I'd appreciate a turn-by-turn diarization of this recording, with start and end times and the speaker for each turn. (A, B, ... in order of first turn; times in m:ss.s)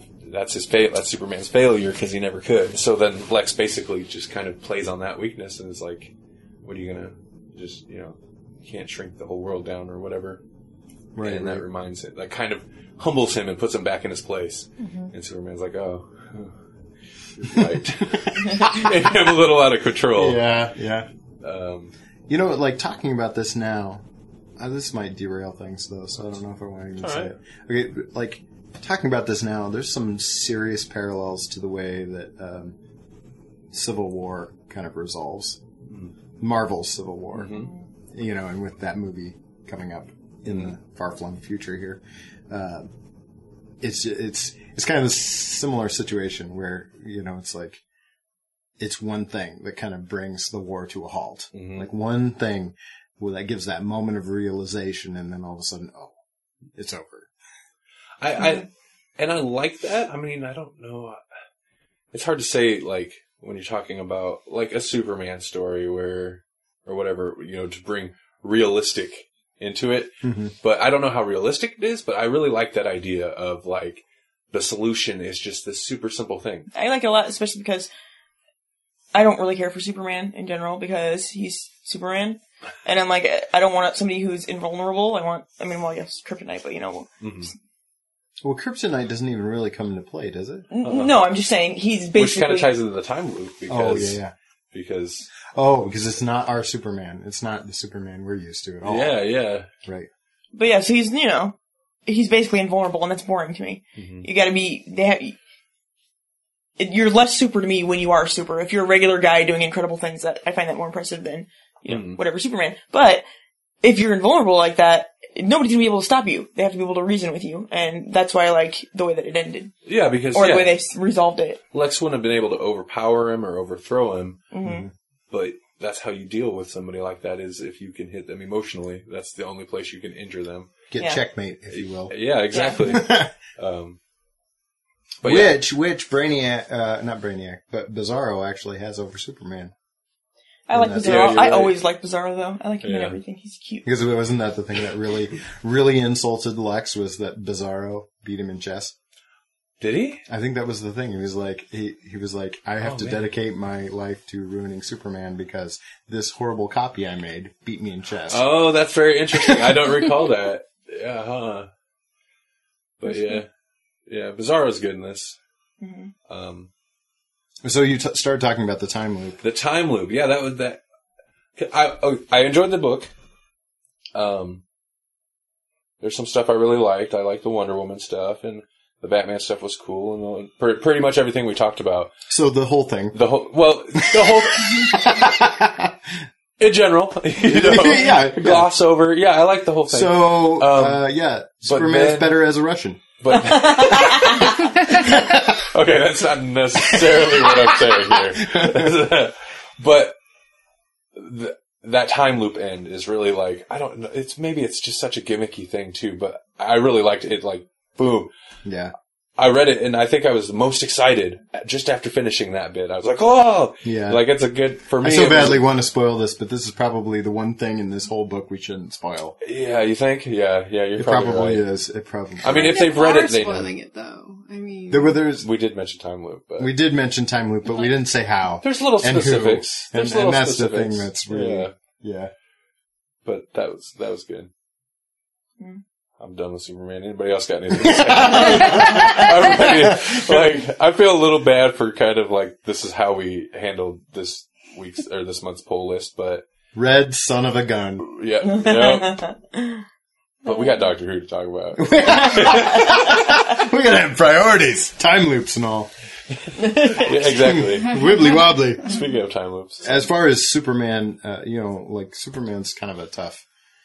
0:00.3-0:06.1 A
0:06.6-0:10.4 A
0:11.2-0:11.6 B
0:11.2-0:16.6 A
0:14.8-0:15.1 C
0:17.4-0:20.5 A
0:17.5-0:18.4 B
0:20.2-0:21.1 B
0:21.4-0:21.9 A
0:22.3-0:24.0 B
0:24.6-0:32.8 B
0:27.0-0:27.3 A
0:33.7-0:35.6 B
0:35.9-0:36.1 A
0:36.4-0:42.9 B
0:37.3-0:37.7 A
0:37.5-0:37.9 D
0:43.8-0:47.8 B
0:48.8-0:56.2 B
0:51.5-0:51.9 A
0:56.8-0:57.3 B
0:58.2-1:01.2 A
1:02.1-1:16.7 A
1:10.2-1:10.5 B
1:16.7-1:17.9 D
1:19.1-1:27.1 D
1:27.2-1:27.5 A
1:28.4-1:30.7 B
1:30.7-1:32.7 D
1:30.8-1:31.2 A
1:32.2-1:34.2 A
1:33.7-1:34.3 B
1:34.7-1:35.3 A
1:35.5-1:39.2 B
1:38.8-1:39.7 A
1:39.8-1:40.1 B
1:40.5-1:45.4 D
1:44.0-1:44.3 A
1:46.8-1:53.2 D
1:51.9-1:52.2 A
1:53.8-1:59.8 D
1:59.9-2:00.8 A
2:00.3-2:01.6 D
2:01.7-2:04.4 A
2:04.5-2:04.9 D
2:04.6-2:04.9 B
2:05.3-2:10.7 A
2:10.9-2:12.2 B
2:11.0-2:11.2 D
2:11.7-2:14.0 A
2:12.5-2:12.8 D
2:12.8-2:13.3 B
2:15.2-2:15.6 A
2:15.2-2:19.7 B
2:20.7-2:23.9 D
2:20.7-2:21.7 B
2:21.0-2:21.8 A
2:22.8-2:23.2 A
2:23.8-2:29.0 B
2:29.8-2:30.2 A
2:30.3-2:38.5 B
2:32.8-2:33.3 A
2:38.3-2:41.7 A
2:43.0-2:43.5 A
2:44.1-2:45.4 A
2:45.8-2:46.1 D
2:46.3-2:46.7 A
2:47.6-2:49.4 B
2:49.4-2:50.8 A
2:51.6-2:53.1 A
2:54.2-2:54.6 A
2:56.0-3:02.1 A
3:02.3-3:03.2 B
3:03.1-3:05.2 A
3:04.0-3:06.0 B
3:06.6-3:11.0 A
3:07.4-3:08.7 B
3:09.9-3:15.6 B
3:11.7-3:12.4 A
3:13.2-3:20.2 A
3:13.8-3:14.1 D
3:16.9-3:19.0 B
3:21.1-3:28.3 A
3:28.6-3:28.9 B
3:29.4-3:35.6 A
3:33.8-3:34.2 B
3:35.0-3:39.4 B
3:39.4-3:41.6 A
3:41.0-3:42.9 B
3:42.4-3:43.8 A
3:42.8-3:45.0 C
3:44.9-3:45.5 B
3:45.4-3:46.7 A
3:46.6-3:52.3 B
3:48.6-3:51.7 A
3:53.2-3:54.5 A
3:56.2-4:06.4 A
3:57.8-4:00.6 B
4:06.7-4:08.1 B
4:08.0-4:09.2 A
4:08.5-4:09.8 D
4:10.4-4:12.9 A
4:10.5-4:10.7 D
4:11.8-4:15.9 B
4:12.5-4:12.9 D
4:16.6-4:18.0 A
4:17.0-4:19.0 B
4:18.8-4:20.0 A
4:19.8-4:23.4 B